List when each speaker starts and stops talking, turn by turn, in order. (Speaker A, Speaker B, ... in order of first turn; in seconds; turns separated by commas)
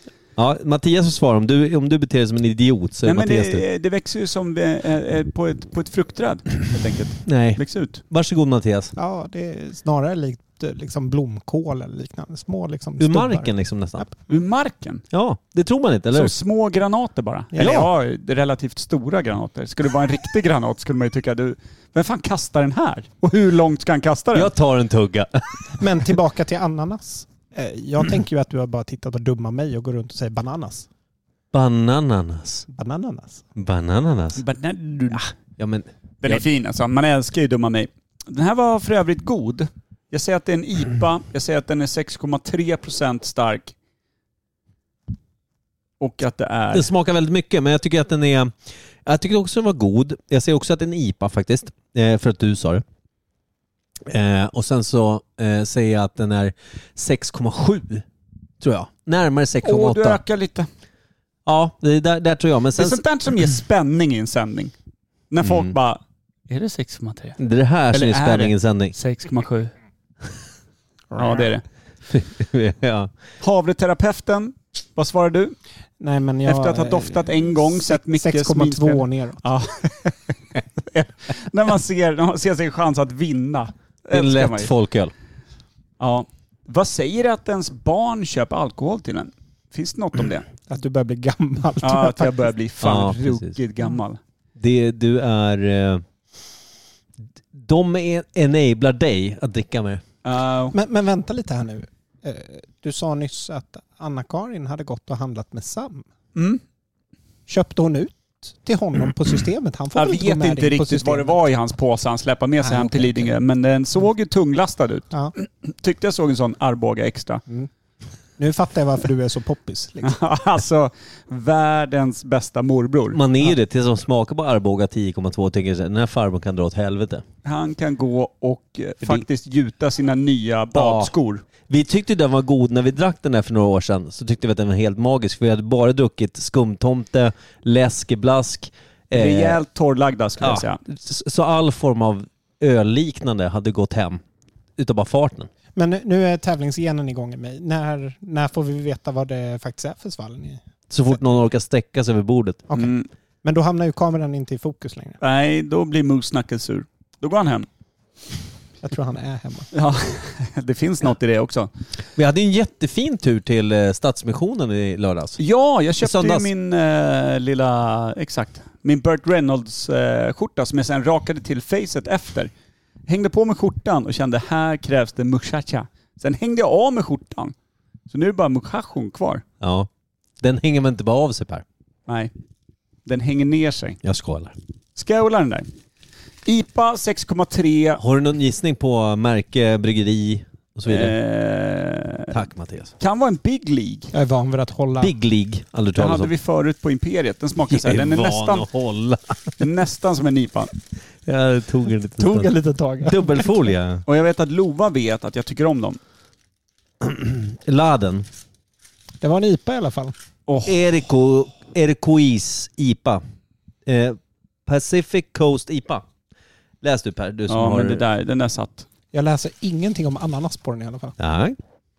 Speaker A: 0.4-3.6, Speaker B: 3.0-8.0, Speaker A: 7.3-8.9, Speaker C: 9.0-14.1, Speaker A: 13.0-14.1, Speaker B: 14.3-15.0, Speaker A: 15.1-16.4, Speaker B: 16.1-24.5, Speaker C: 17.5-17.9, Speaker A: 17.6-17.9, Speaker A: 24.3-25.8, Speaker C: 25.8-30.9, Speaker A: 31.5-32.7, Speaker C: 32.7-33.5, Speaker A: 33.6-34.4, Speaker B: 34.4-35.2, Speaker A: 35.1-36.4, Speaker B: 36.2-43.7, Speaker B: 46.0-46.9, Speaker A: 46.7-48.5, Speaker A: 49.1-52.8, Speaker A: 54.1-58.0, Speaker A: 58.6-60.2, Speaker B: 59.6-60.7, Speaker A: 61.5-63.0, Speaker B: 62.8-64.7, Speaker B: 65.3-67.4, Speaker A: 65.4-65.7, Speaker A: 67.4-69.0, Speaker B: 67.9-69.7, Speaker B: 71.2-71.6, Speaker A: 72.1-73.1, Speaker B: 73.4-75.5, Speaker C: 76.0-79.5, Speaker B: 76.5-84.7, Speaker A: 84.1-85.1, Speaker B: 86.0-90.5, Speaker C: 90.7-92.4, Speaker B: 91.8-94.2, Speaker A: 92.8-93.6, Speaker A: 94.6-96.0, Speaker A: 97.5-100.0, Speaker B: 100.2-100.8, Speaker C: 100.7-106.1, Speaker B: 106.3-106.6, Speaker C: 107.5-111.4, Speaker B: 110.0-117.4, Speaker C: 112.6-113.3, Speaker C: 118.4-120.2, Speaker B: 120.0-123.2, Speaker A: 123.1-127.2, Speaker B: 127.5-131.4, Speaker A: 130.8-131.1, Speaker A: 131.7-139.6, Speaker B: 139.1-140.8, Speaker A: 140.4-144.2, Speaker A: 144.8-145.5, Speaker C: 145.8-150.6, Speaker A: 150.9-152.7, Speaker B: 152.7-153.1, Speaker C: 153.4-155.2, Speaker B: 155.2-157.7, Speaker C: 158.8-159.7, Speaker B: 159.7-161.7, Speaker A: 162.2-165.4, Speaker B: 165.4-172.5, Speaker A: 166.0-166.5, Speaker B: 173.1-177.5, Speaker B: 178.1-179.4, Speaker A: 179.6-179.9, Speaker A: 180.4-181.6, Speaker B: 182.1-182.3, Speaker B: 183.1-184.0, Speaker A: 184.0-184.5, Speaker B: 185.0-185.7, Speaker B: 186.5-188.0, Speaker A: 188.0-191.2, Speaker B: 190.9-192.3, Speaker A: 192.3-192.9, Speaker B: 193.0-194.1, Speaker C: 194.1-195.1, Speaker A: 195.0-196.3, Speaker B: 195.9-198.7, Speaker A: 197.7-199.5, Speaker B: 199.6-200.7, Speaker A: 201.3-204.0, Speaker C: 202.2-203.5, Speaker B: 204.1-206.0, Speaker A: 207.0-208.3, Speaker C: 209.2-210.1, Speaker B: 210.5-210.8, Speaker A: 210.7-213.2, Speaker A: 213.9-216.0, Speaker A: 216.8-218.0, Speaker B: 217.5-218.9, Speaker C: 219.1-221.2, Speaker A: 221.2-221.6